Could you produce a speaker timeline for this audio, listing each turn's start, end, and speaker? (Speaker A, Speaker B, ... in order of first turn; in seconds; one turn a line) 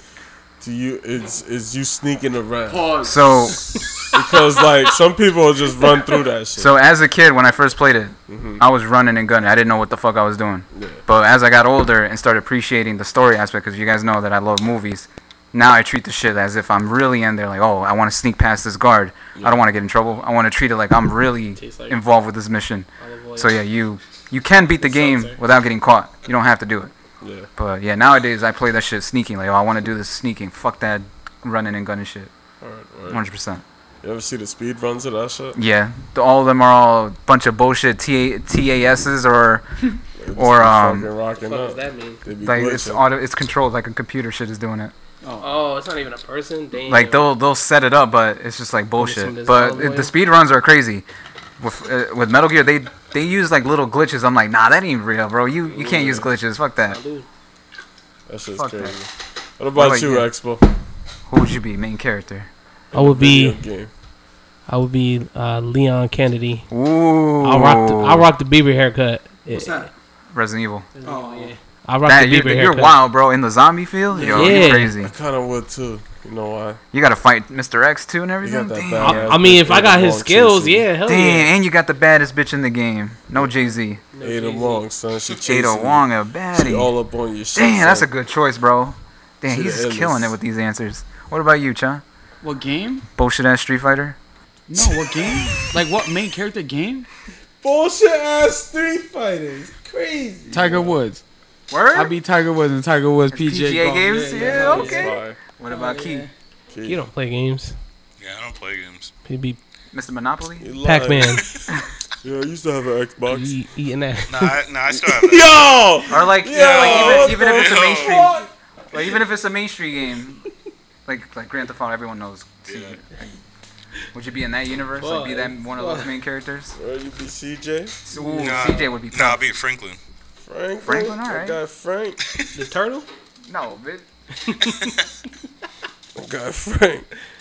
Speaker A: 0.6-2.8
Speaker B: 2.7-3.6
Speaker C: 3.0-3.8
Speaker A: 4.1-6.7
Speaker C: 6.5-26.9
Speaker A: 8.3-8.6
Speaker A: 10.7-11.0
Speaker A: 19.4-19.6
Speaker D: 21.6-22.0
Speaker D: 23.0-23.6
Speaker D: 24.8-25.4
Speaker A: 27.2-27.5
Speaker C: 27.6-32.3
Speaker A: 32.6-33.2
Speaker C: 33.1-33.6
Speaker A: 34.0-35.6
Speaker C: 35.5-39.7
Speaker A: 40.2-43.0
Speaker C: 40.3-41.1
Speaker D: 41.4-42.2
Speaker C: 42.4-44.9
Speaker B: 45.2-45.5
Speaker D: 45.4-47.3
Speaker C: 46.8-51.0
Speaker D: 49.0-50.1
Speaker C: 51.6-57.0
Speaker A: 55.7-56.3
Speaker D: 56.9-57.3
Speaker A: 58.3-59.1
Speaker C: 58.6-58.9
Speaker A: 59.6-60.6
Speaker C: 59.7-60.3
Speaker C: 61.3-62.5
Speaker A: 62.9-63.9
Speaker D: 62.9-63.6
Speaker D: 64.7-66.7
Speaker C: 66.7-68.3
Speaker D: 67.4-69.9
Speaker B: 69.5-69.9
Speaker C: 70.3-70.9
Speaker D: 70.9-73.0
Speaker B: 71.0-71.5
Speaker C: 72.0-75.1
Speaker B: 74.1-74.6
Speaker A: 74.2-76.8
Speaker D: 74.3-74.9
Speaker C: 76.9-79.3
Speaker A: 78.4-80.8
Speaker D: 79.0-81.5
Speaker C: 81.0-84.0
Speaker D: 84.1-84.8
Speaker A: 84.2-88.1
Speaker C: 85.4-86.9
Speaker C: 87.5-92.0
Speaker A: 89.5-90.3
Speaker B: 92.4-93.0
Speaker C: 93.2-94.2
Speaker B: 94.7-97.1
Speaker A: 97.6-101.0
Speaker B: 100.5-101.2
Speaker C: 101.7-102.1
Speaker B: 101.9-105.1
Speaker C: 103.3-106.3
Speaker D: 104.0-105.1
Speaker A: 104.5-105.4
Speaker B: 105.7-106.3
Speaker A: 106.7-107.0
Speaker D: 106.8-107.8
Speaker E: 108.2-109.1
Speaker D: 109.2-109.6
Speaker C: 109.9-110.7
Speaker A: 110.6-111.5
Speaker D: 110.8-111.4
Speaker A: 112.2-113.5
Speaker D: 113.3-114.6
Speaker E: 114.3-115.8
Speaker A: 114.9-118.5
Speaker C: 116.1-118.3
Speaker E: 116.5-118.3
Speaker C: 118.9-120.4
Speaker C: 121.0-123.0
Speaker E: 122.7-123.0
Speaker C: 124.1-126.7
Speaker D: 125.0-126.1
Speaker A: 126.8-128.0
Speaker C: 128.0-129.4
Speaker B: 128.1-128.8
Speaker E: 128.4-130.0
Speaker A: 130.5-132.2
Speaker C: 130.8-131.6
Speaker D: 132.5-133.1
Speaker C: 133.4-134.0
Speaker D: 134.4-134.9
Speaker A: 136.2-137.1